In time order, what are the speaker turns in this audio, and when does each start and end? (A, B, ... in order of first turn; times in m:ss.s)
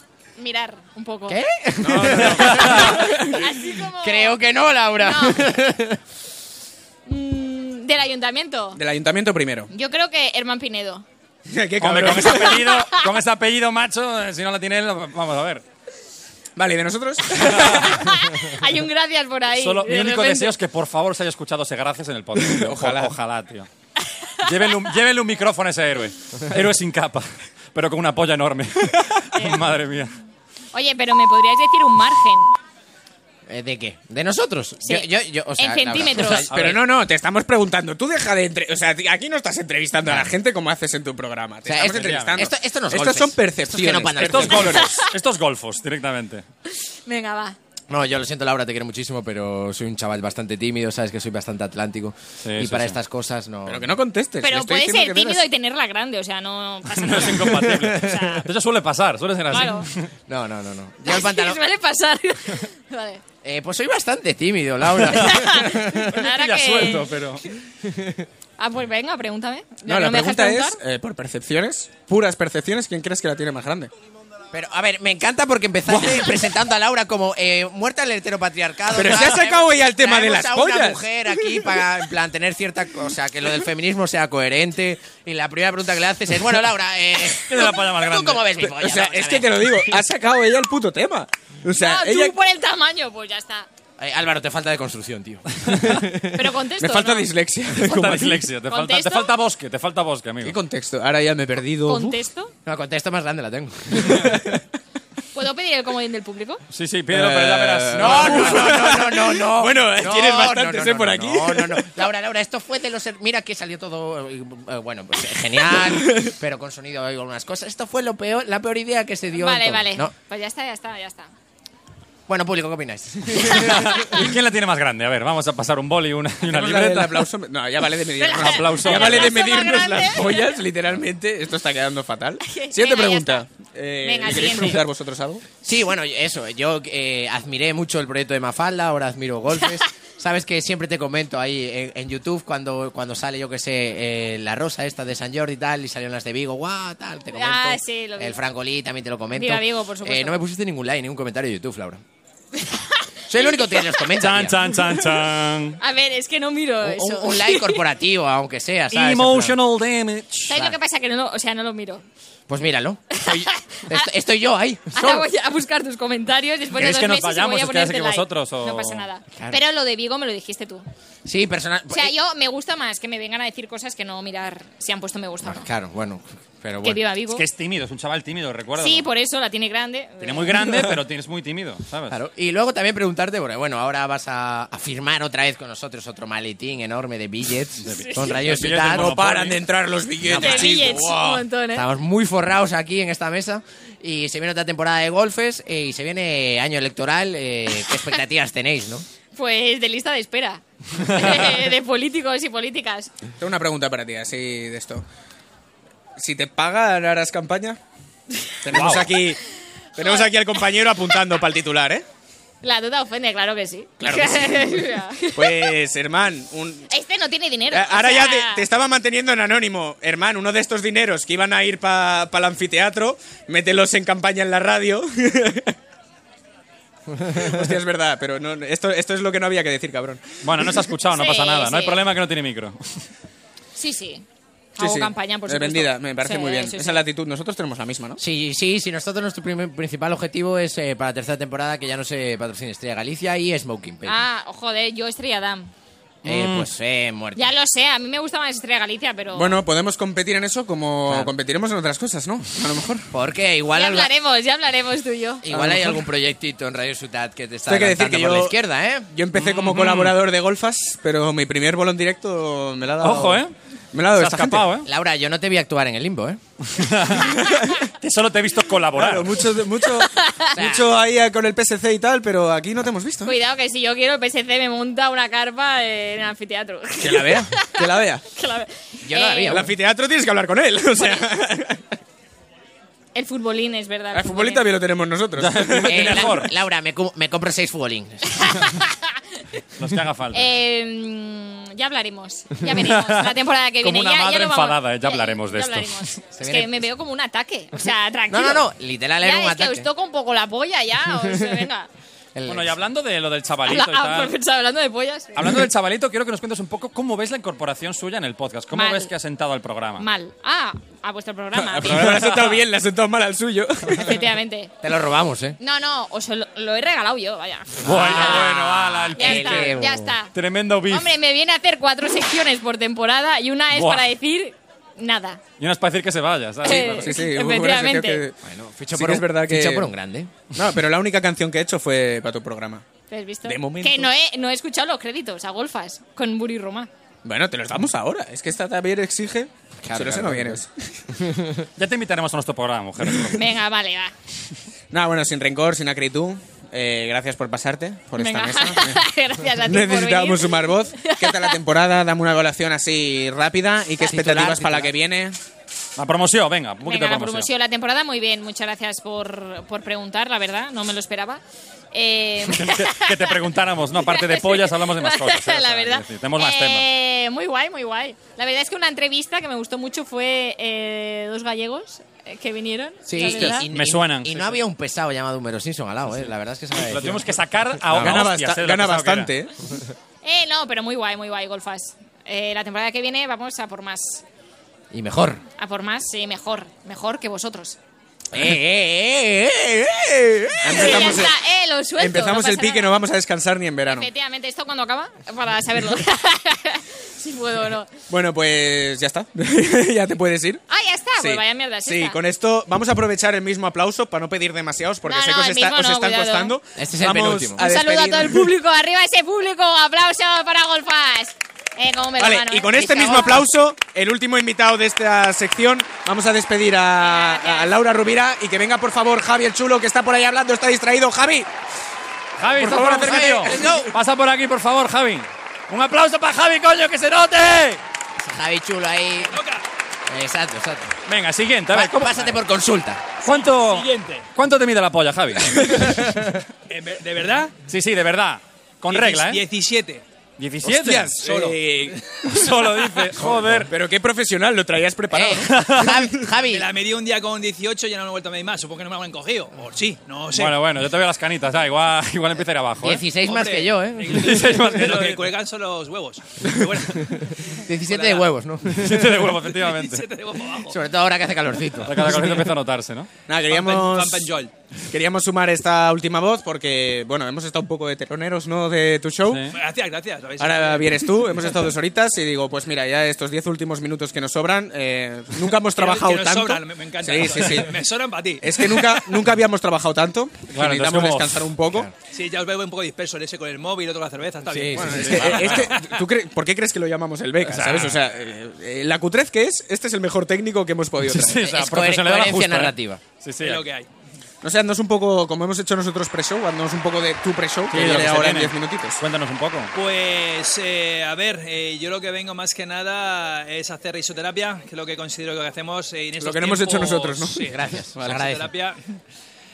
0:00.4-0:01.4 A
0:01.3-0:03.1 B
0:01.8-0:03.5 C
0:02.1-0:02.8 D
0:02.8-0:04.4 A
0:04.0-0:06.0 B
0:05.0-0:05.4 A
0:07.0-0:08.8 A
0:08.8-0:09.7 C
0:09.7-0:11.0 A
0:11.5-0:12.7 C
0:11.8-0:15.6 D
0:12.7-0:13.1 A
0:16.6-0:18.2 C
0:17.8-0:20.5 A
0:19.5-0:23.7 D
0:22.4-0:23.1 C
0:24.4-0:30.2 D
0:29.3-0:29.6 A
0:30.7-0:32.5 A
0:33.5-0:36.7 B
0:34.8-0:36.5 A
0:36.5-0:45.0 C
0:36.5-0:36.8 D
0:40.0-0:40.3 B
0:41.6-0:44.7 B
0:41.8-0:42.4 D
0:44.2-0:46.4 D
0:44.6-0:45.1 A
0:46.9-0:47.6 A
0:47.9-0:53.9 B
0:52.4-0:53.0 D
0:53.6-0:55.4 C
0:54.4-0:58.5 A
0:56.9-1:00.1 D
0:57.8-0:58.2 B
0:59.5-0:59.9 A
1:00.3-1:01.6 B
1:01.0-1:03.2 A
1:03.4-1:06.2 B
1:05.1-1:07.1 A
1:06.1-1:07.4 D
1:07.8-1:08.2 B
1:08.6-1:10.8 A
1:09.8-1:13.9 C
1:14.5-1:29.8 B
1:15.9-1:16.2 C
1:18.9-1:21.8 C
1:27.3-1:28.6 D
1:28.6-1:32.4 C
1:31.7-1:33.7 A
1:34.0-1:36.4 B
1:36.3-1:37.3 A
1:36.8-1:38.5 C
1:37.8-1:40.6 D
1:38.6-1:39.3 A
1:40.4-1:42.2 C
1:41.8-1:42.5 A
1:42.6-1:44.6 B
1:44.0-1:44.5 C
1:45.3-1:46.6 A
1:46.7-1:48.7 D
1:47.1-1:51.9 C
1:47.9-2:00.1 B
1:59.3-2:01.3 A
2:02.3-2:04.0 B
2:03.5-2:07.3 D
2:06.4-2:15.4 C
2:08.2-2:10.6 A
2:08.3-2:09.3 D
2:12.4-2:13.4 A
2:14.0-2:14.8 A
2:15.6-2:32.0 B
2:27.3-2:28.4 A
2:29.3-2:30.4 A
2:32.6-2:33.9 A
2:33.3-2:34.6 B
2:34.2-2:35.8 D
2:35.8-2:37.8 A
2:36.8-2:39.6 B
2:38.9-2:40.6 D
2:40.5-2:42.0 A
2:42.5-2:45.3 B
2:43.1-2:44.1 A
2:44.9-2:50.8 A
2:46.7-2:49.0 D
2:49.3-2:49.6 B
2:51.2-2:52.1 B
2:51.9-2:55.7 A
2:55.4-2:57.0 B
2:56.8-2:57.4 A
2:57.3-2:59.0 D
2:58.8-3:00.6 A
3:00.2-3:02.2 D
3:02.1-3:09.1 B
3:07.8-3:09.6 D
3:07.9-3:08.4 A
3:08.6-3:11.5 C
3:10.2-3:11.0 B
3:10.3-3:11.8 A
3:11.7-3:19.0 B
3:19.3-3:23.1 A
3:21.1-3:21.4 D
3:23.4-3:25.0 C
3:26.2-3:27.8 C
3:28.6-3:29.4 C
3:28.7-3:29.1 D
3:30.0-3:32.0 C
3:30.0-3:30.3 A
3:32.6-3:35.7 A
3:34.0-3:36.9 C
3:36.9-3:38.6 A
3:37.7-3:45.8 C
3:47.2-3:50.8 C
3:50.4-3:53.1 D
3:51.1-3:52.0 A
3:53.8-3:54.2 A
3:54.8-3:57.0 A
3:54.8-3:58.2 C
3:58.2-4:04.2 B
4:04.0-4:05.7 A
4:06.2-4:06.7 D
4:06.2-4:07.4 B
4:07.4-4:09.6 A
4:09.3-4:13.1 C
4:13.1-4:14.1 B
4:13.7-4:15.4 A
4:15.4-4:19.1 B
4:15.5-4:16.0 C
4:17.7-4:18.6 C
4:19.1-4:24.7 C
4:19.3-4:20.2 D
4:23.0-4:23.5 D
4:24.1-4:24.9 D
4:24.8-4:26.4 B
4:26.6-4:27.4 D
4:27.2-4:27.8 C
4:27.9-4:29.4 D
4:28.9-4:33.3 C
4:29.8-4:30.5 A
4:30.5-4:30.9 B
4:33.2-4:39.6 A
4:37.0-4:38.2 C
4:39.0-4:39.6 B
4:39.5-4:41.9 C
4:41.0-4:41.2 A
4:43.1-4:44.7 A
4:44.1-4:46.3 C
4:45.4-4:46.5 D
4:45.8-4:48.6 B
4:48.4-4:49.1 A
4:49.8-4:50.4 D
4:50.3-4:58.6 A
4:52.7-4:56.2 D
4:56.4-4:56.8 B
4:58.3-4:59.9 B
4:59.2-5:01.9 A
5:01.2-5:01.6 B
5:02.3-5:02.7 B
5:02.4-5:04.3 D
5:03.6-5:05.4 A
5:05.3-5:10.1 D
5:08.7-5:09.1 A
5:10.0-5:12.3 A
5:11.5-5:14.2 C
5:14.0-5:14.7 A
5:14.8-5:15.6 B
5:15.6-5:18.6 A
5:17.8-5:20.1 B
5:17.8-5:19.8 D
5:19.1-5:20.3 A
5:20.3-5:21.1 D
5:20.9-5:25.4 A
5:23.7-5:24.1 D
5:25.6-5:27.0 D
5:26.6-5:28.2 A
5:26.6-5:28.4 C
5:28.4-5:30.3 B
5:28.9-5:29.9 C
5:30.5-5:32.9 C
5:33.1-5:36.9 A
5:33.4-5:34.1 C
5:37.2-5:41.0 C
5:39.8-5:40.6 B
5:41.1-5:41.6 B
5:41.8-5:43.4 D
5:43.3-5:44.1 A
5:44.9-5:49.0 C
5:48.2-5:51.6 A
5:49.6-5:55.4 C
5:54.0-5:54.9 B
5:56.0-5:57.5 D
5:56.8-6:01.4 A
6:01.9-6:13.7 A
6:02.4-6:06.9 D
6:13.0-6:17.2 B
6:13.6-6:14.6 D
6:16.8-6:19.3 D
6:17.9-6:19.5 C
6:17.9-6:18.2 B
6:20.2-6:24.2 A
6:24.9-6:25.4 B
6:25.6-6:27.8 A
6:28.3-6:31.2 B
6:30.6-6:31.4 C
6:30.7-6:32.9 A
6:32.0-6:34.1 C
6:33.9-6:37.9 A
6:38.1-6:40.6 C
6:40.7-6:42.2 A
6:41.2-6:48.6 C
6:45.0-6:46.6 A
6:46.8-6:47.6 B
6:47.6-6:53.0 A
6:52.2-7:01.5 C
6:52.7-6:53.4 B
6:57.0-6:57.7 A
7:02.4-7:07.8 D
7:02.5-7:03.8 C
7:02.7-7:03.9 B
7:08.2-7:09.3 B
7:09.2-7:09.6 E
7:10.1-7:10.9 B
7:11.1-7:12.4 D
7:11.7-7:13.1 B
7:13.2-7:14.3 E
7:13.2-7:15.9 D
7:16.7-7:17.6 E
7:17.7-7:19.4 D
7:18.9-7:20.0 E
7:20.4-7:21.2 D
7:20.6-7:22.3 C
7:21.2-7:21.6 E
7:22.2-7:23.7 D
7:23.1-7:25.9 C
7:25.1-7:26.7 B
7:25.5-7:26.0 D
7:26.4-7:30.6 E
7:30.3-7:33.0 D
7:32.8-7:34.6 B
7:33.1-7:38.3 E
7:34.0-7:35.3 D
7:37.4-7:39.2 B
7:38.6-7:40.1 D
7:39.4-7:40.8 E
7:40.7-7:42.5 B
7:41.8-7:43.1 D
7:43.3-7:44.3 C
7:43.5-7:44.5 E
7:44.9-7:49.5 C
7:49.2-7:49.5 D
7:49.5-7:51.2 E
7:50.4-7:57.8 C
7:55.8-7:59.0 E
7:58.4-8:01.9 C
8:00.5-8:01.5 D
8:02.1-8:06.0 E
8:04.4-8:05.5 B
8:04.8-8:11.4 C
8:05.0-8:05.7 D
8:07.4-8:08.0 D
8:11.0-8:13.6 D
8:11.4-8:13.0 B
8:13.4-8:13.9 E
8:14.4-8:19.0 C
8:17.7-8:19.7 D
8:19.7-8:29.0 E
8:26.2-8:28.2 C
8:27.4-8:28.5 B